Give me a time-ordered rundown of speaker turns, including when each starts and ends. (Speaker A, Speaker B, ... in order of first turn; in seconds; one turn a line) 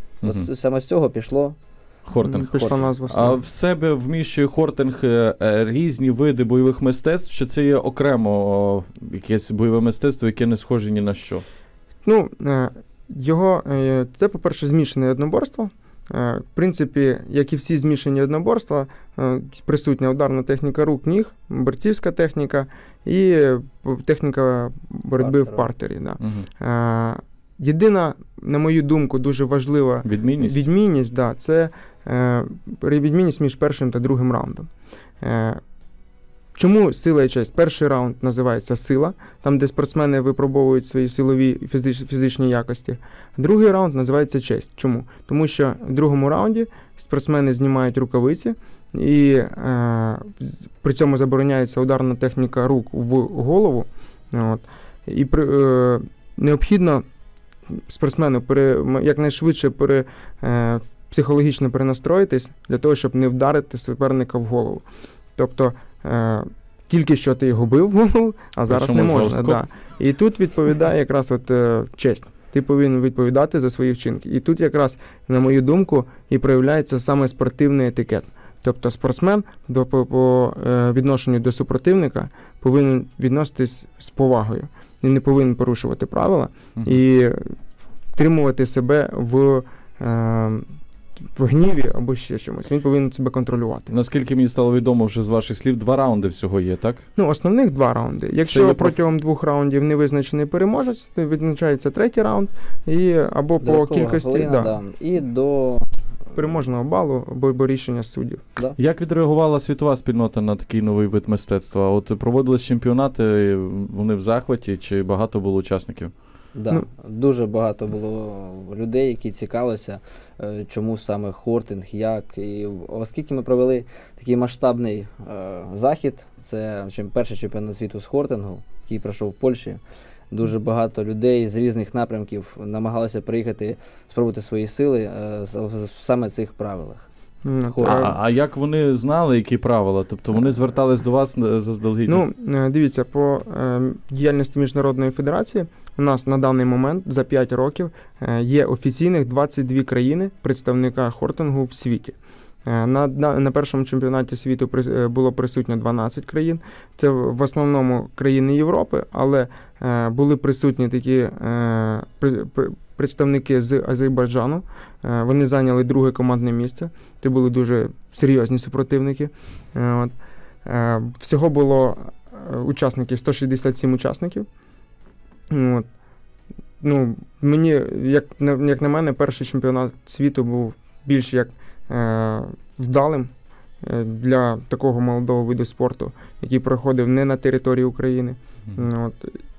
Speaker A: 0.2-1.6
Speaker B: 2.0-11.4
Speaker C: 2.2-3.4
Speaker C: 12.0-34.7
Speaker A: 25.2-25.7
Speaker B: 26.2-26.4
Speaker B: 30.0-30.6
Speaker C: 35.2-35.6
Speaker C: 36.5-57.0
Speaker C: 57.7-64.8
Speaker C: 65.3-87.5
Speaker B: 68.7-69.6
Speaker C: 88.1-90.7
Speaker C: 91.3-93.9
Speaker B: 93.9-97.0
Speaker C: 97.2-104.7
Speaker B: 98.5-99.0
Speaker A: 103.6-105.9
Speaker C: 106.3-108.4
Speaker B: 108.8-116.1
Speaker A: 116.5-129.8
Speaker A: 130.3-137.1
Speaker C: 137.4-138.2
Speaker A: 137.7-138.1
Speaker B: 137.8-142.2
Speaker C: 142.1-170.1
Speaker C: 170.6-174.4
Speaker C: 175.5-175.8
Speaker C: 176.8-189.4